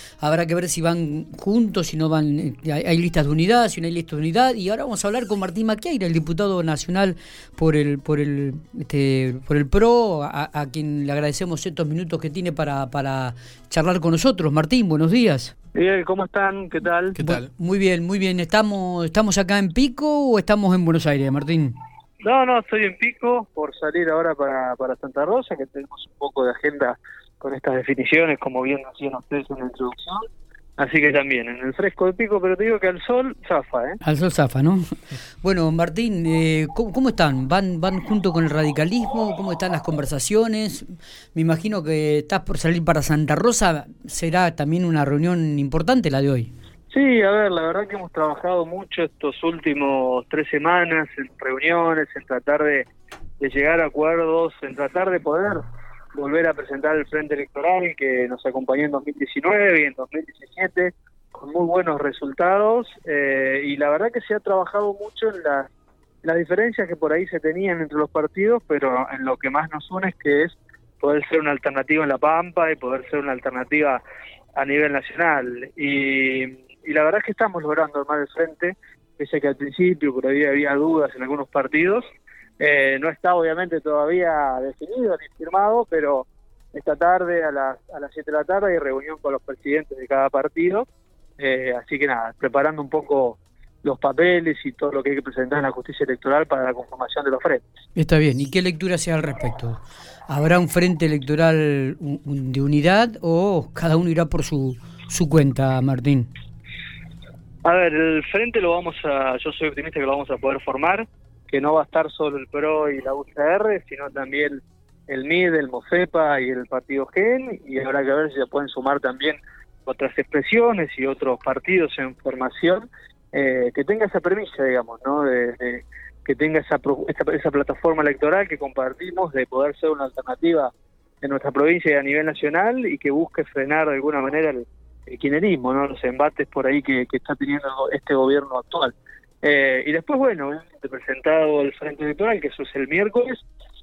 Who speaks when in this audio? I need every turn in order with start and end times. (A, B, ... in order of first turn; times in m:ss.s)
0:00.2-0:15.5 A
0:15.7-0:17.3 B
0:17.2-0:21.7 A
0:22.2-0:30.2 B
0:30.8-0:34.0 B
0:34.0-0:46.5 A
0:46.9-0:52.8 B
0:53.4-0:55.6 B
0:56.1-1:05.7 B
1:06.2-1:14.0 B
1:14.6-1:22.0 B
1:22.6-1:30.8 B
1:31.4-1:37.6 B
1:38.0-1:46.3 A
1:47.6-2:10.7 B
2:11.2-2:23.4 B